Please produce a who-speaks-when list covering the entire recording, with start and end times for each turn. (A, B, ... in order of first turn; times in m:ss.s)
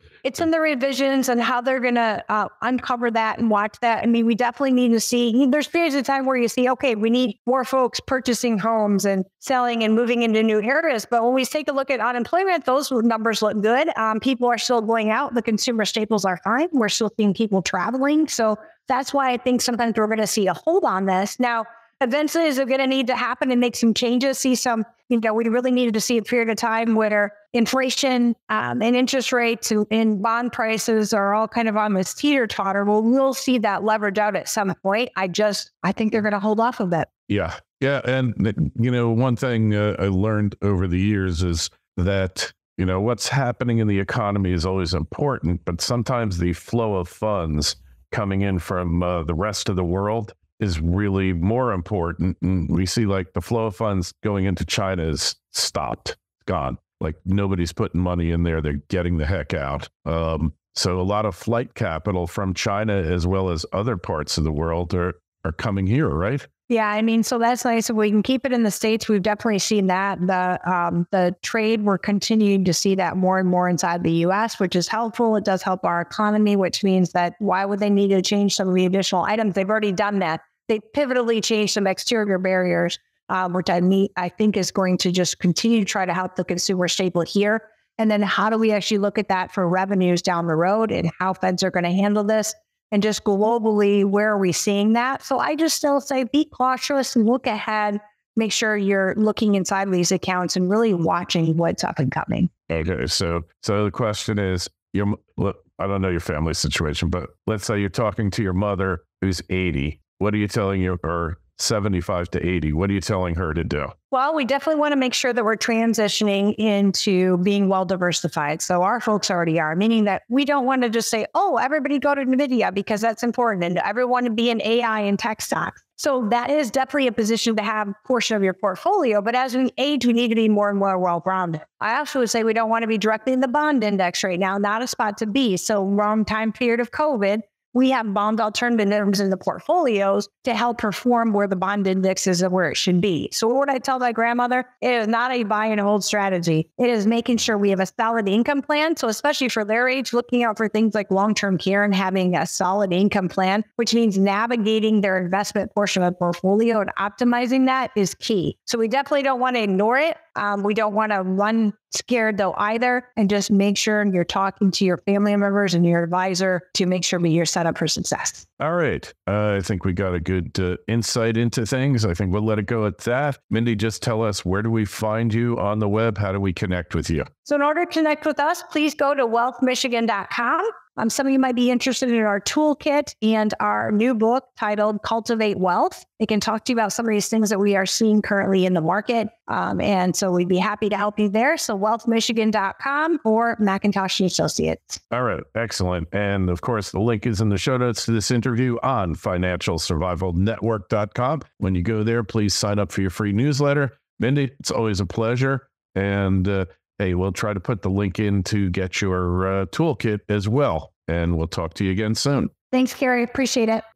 0:00.2-0:37.1 A
0:37.3-1:06.5 B
1:06.7-1:42.5 A
1:42.7-1:53.9 B
1:54.1-2:48.5 A
2:48.6-2:57.3 B
2:57.4-3:15.0 A
3:15.1-3:32.5 B
3:32.7-3:33.8 A